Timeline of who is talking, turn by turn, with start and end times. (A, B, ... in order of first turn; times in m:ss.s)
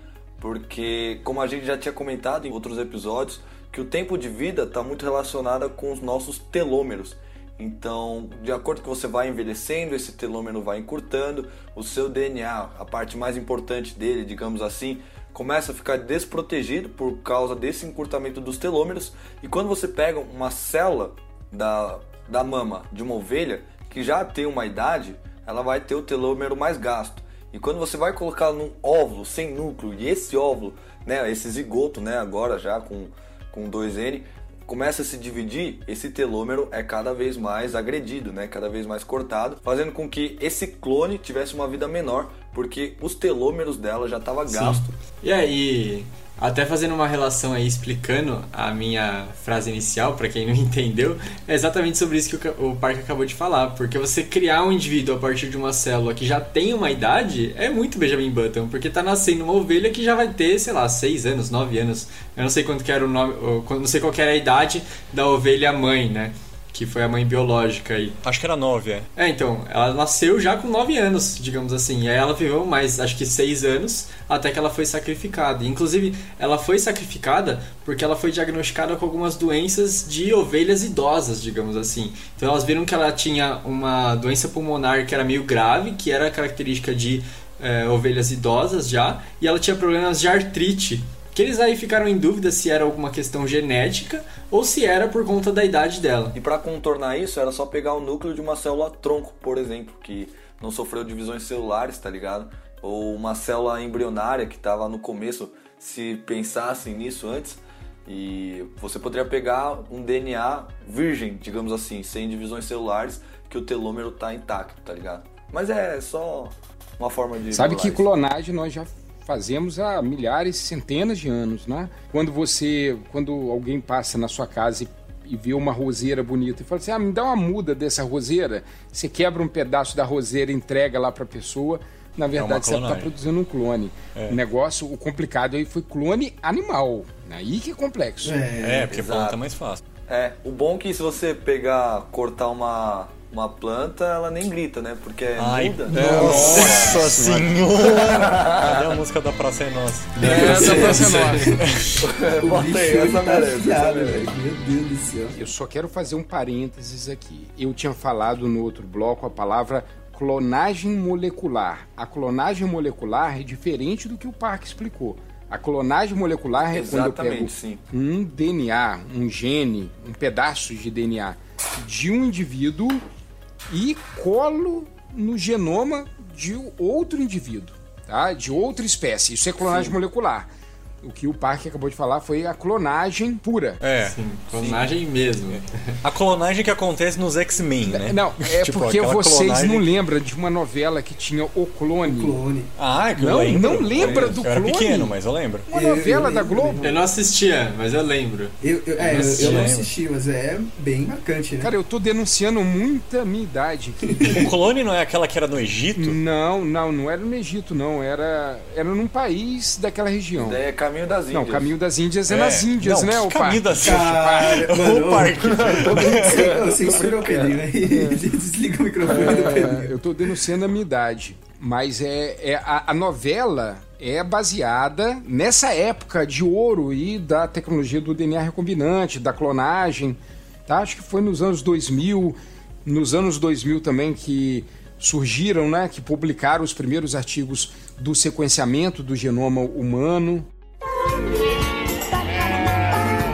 0:00.4-0:44.9 A
0:44.5-1:08.2 B
1:08.2-1:09.1 C
1:09.2-1:36.4 B
1:36.3-1:58.0 A
1:57.5-2:18.4 D
2:12.4-2:13.1 C
2:18.2-2:18.9 E
2:18.6-2:19.8 C
2:18.9-2:19.4 A
2:20.1-2:27.2 A
2:25.4-2:32.0 C
2:25.9-2:27.6 D
2:27.8-2:29.0 A
2:30.2-2:31.6 D
2:30.3-2:31.0 A
2:30.4-2:30.7 B
2:32.0-2:34.3 A
2:32.4-2:35.4 E
2:35.3-2:53.0 D
2:46.7-2:47.8 A
2:53.7-3:00.5 D
3:01.0-3:03.8 D
3:03.8-3:04.9 C
3:04.0-3:05.8 B
3:05.5-3:09.9 C
3:07.8-3:12.4 D
3:12.0-3:12.7 E
3:12.8-3:15.7 C
3:13.1-3:15.1 D
3:14.0-3:14.3 E
3:15.7-3:16.9 D
3:15.7-3:17.0 E
3:16.8-3:19.7 B
3:18.6-3:21.7 E
3:19.1-3:19.9 C
3:21.6-3:24.5 D
3:24.1-3:24.5 E
3:24.3-3:26.2 C
3:26.0-3:30.6 D
3:30.3-3:31.7 A
3:31.3-3:34.7 D
3:32.3-3:37.4 C
3:33.8-3:39.9 E
3:36.2-3:37.1 D
3:39.0-4:00.5 D